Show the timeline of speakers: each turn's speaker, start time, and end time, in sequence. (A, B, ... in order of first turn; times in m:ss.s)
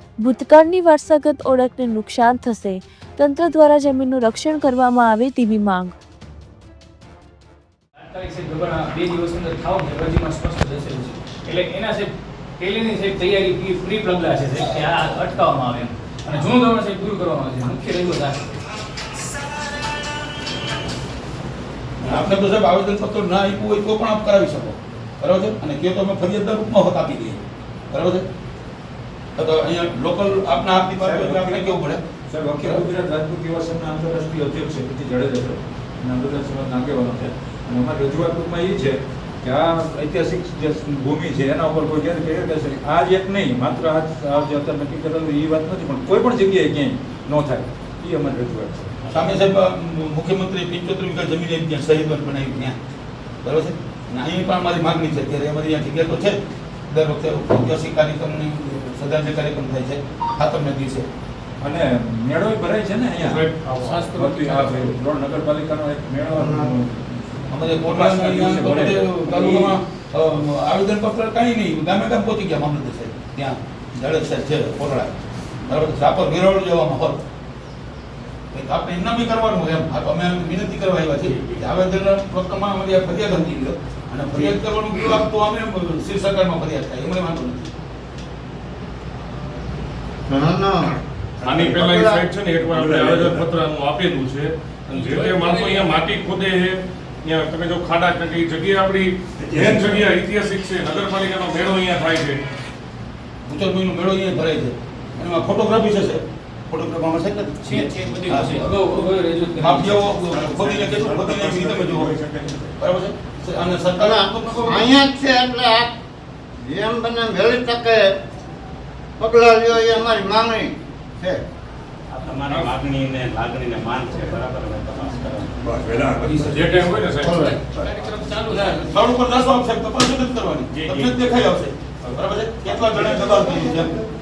0:00.2-0:06.0 A
0:08.0-0:18.4 B
0:22.0-0:28.2 C
0:29.4-0:32.0 C
0:31.0-0:31.7 D
0:32.3-0:49.0 D
0:49.1-0:52.8 C
0:53.4-1:01.1 C
1:01.6-1:03.5 D
1:03.2-1:04.3 E
1:03.8-1:04.7 B
1:04.1-1:09.7 D
1:07.5-1:17.2 C
1:18.5-1:27.7 C
1:21.2-1:21.6 F
1:30.3-1:33.5 G
1:31.4-1:42.4 E
1:39.4-1:40.1 G
1:43.5-1:52.1 C
1:47.6-1:50.1 B
1:50.2-1:52.7 G
1:52.8-1:54.9 C
1:54.0-1:55.9 G
1:56.6-1:58.1 G
1:59.2-2:01.4 G
2:02.1-2:06.8 F
2:05.6-2:08.0 G
2:06.3-2:07.6 E
2:08.0-2:08.7 F
2:08.6-2:14.0 C
2:10.7-2:11.4 F
2:13.1-2:13.8 G